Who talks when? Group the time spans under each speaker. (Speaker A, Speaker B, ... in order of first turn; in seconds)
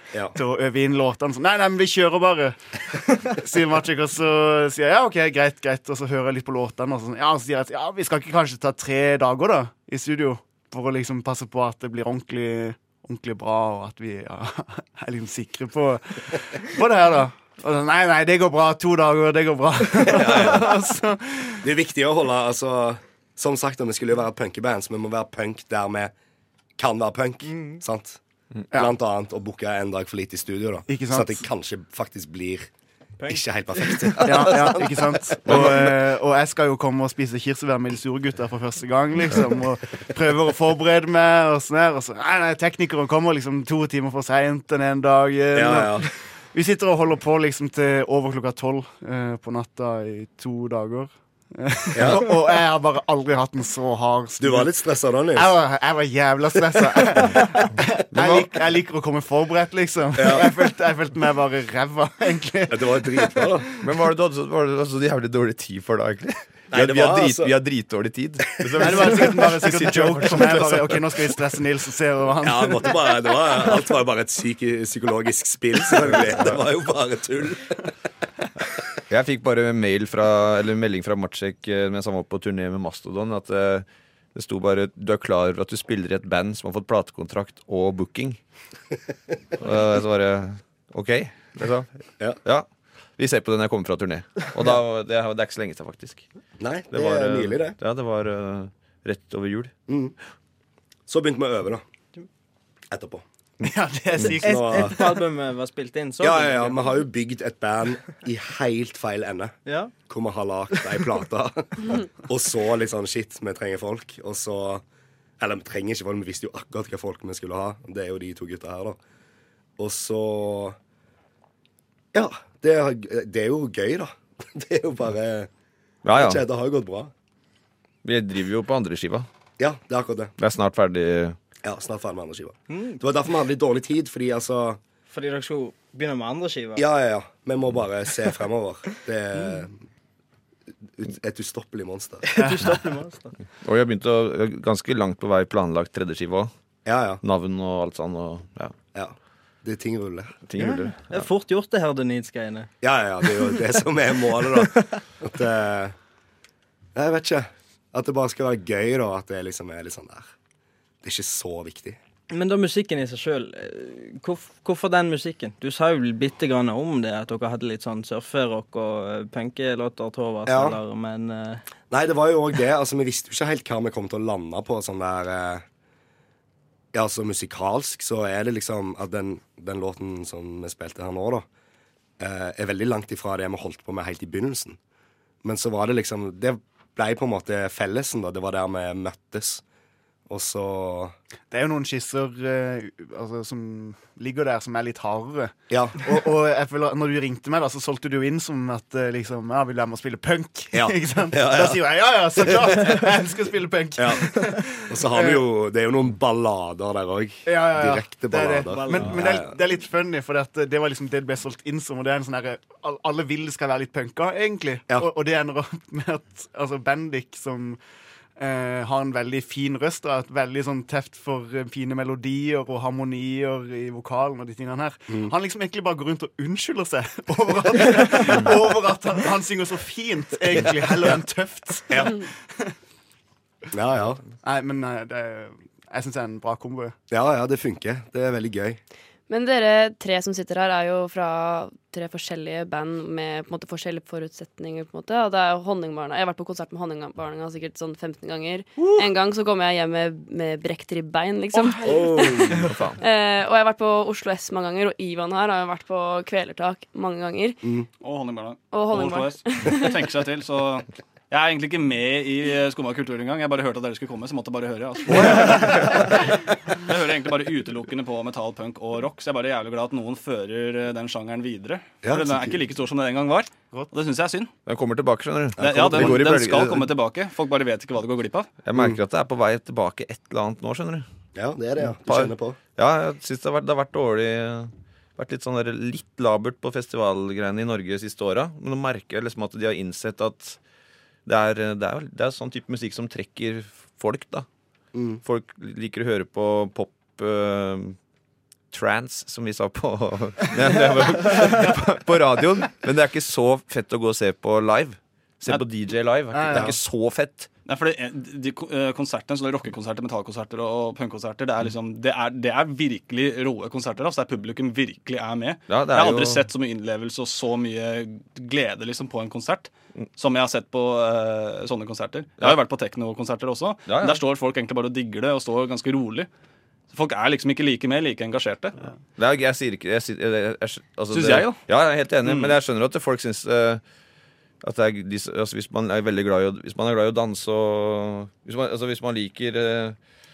Speaker A: 0.3-21.6, 30.9-31.4, 34.2-54.7, 55.4-63.6, 68.8-73.0, 103.6-105.1, 142.4-142.7, 191.5-205.4, 207.4-217.8, 218.4-232.7, 234.4-236.9, 306.3-306.7
Speaker B: 20.0-20.7, 21.6-26.1, 26.8-28.2, 28.7-32.7, 33.2-35.9, 45.5-46.1, 51.9-52.3, 54.4-55.5, 60.2-60.5, 62.7-63.7, 66.7-67.5, 68.7-69.0, 72.4-77.9, 96.6-97.8, 99.9-100.1, 101.1-101.8, 102.9-103.2, 104.4-105.1, 106.2-114.8, 115.4-119.0, 119.8-120.8, 122.1-125.5, 126.2-127.1, 129.6-130.3, 131.6-134.8, 136.8-139.8, 141.0-142.2, 146.8-147.2, 148.9-150.3, 152.8-155.9, 156.9-160.3, 161.0-162.0, 170.4-170.8, 171.9-175.6, 176.9-181.4, 182.2-184.8, 185.4-189.6, 190.3-191.1, 195.7-196.0, 200.7-201.8, 202.4-203.0, 204.0-209.5, 231.9-232.2, 233.7-234.2, 237.1-238.8, 251.8-252.7, 272.0-272.6, 275.6-276.2, 281.3-282.6, 294.9-295.2, 306.5-306.8
Speaker C: 27.4-27.8, 33.2-34.4, 104.4-106.9, 109.6-109.9, 132.7-133.0, 135.1-136.8, 139.4-139.6, 142.2-143.3, 150.6-152.7, 153.3-153.7, 162.3-171.6, 208.7-209.1
Speaker D: 58.1-58.5, 63.8-71.0, 79.1-88.4, 89.6-91.9, 93.2-96.2, 96.9-99.7, 126.0-126.4, 128.0-129.3, 130.4-131.4, 143.6-146.5, 147.2-148.7, 150.5-151.3, 252.5-253.0, 274.6-276.9, 278.6-281.0, 281.9-290.6, 291.2-294.4, 295.2-298.0, 298.7-307.5, 315.7-316.4, 323.9-324.2, 329.2-333.8, 334.6-340.0
Speaker E: 239.3-257.6, 258.7-259.9
Speaker F: 258.0-274.5, 275.6-278.5, 307.6-326.3, 326.9-328.8, 331.1-331.6, 332.2-332.5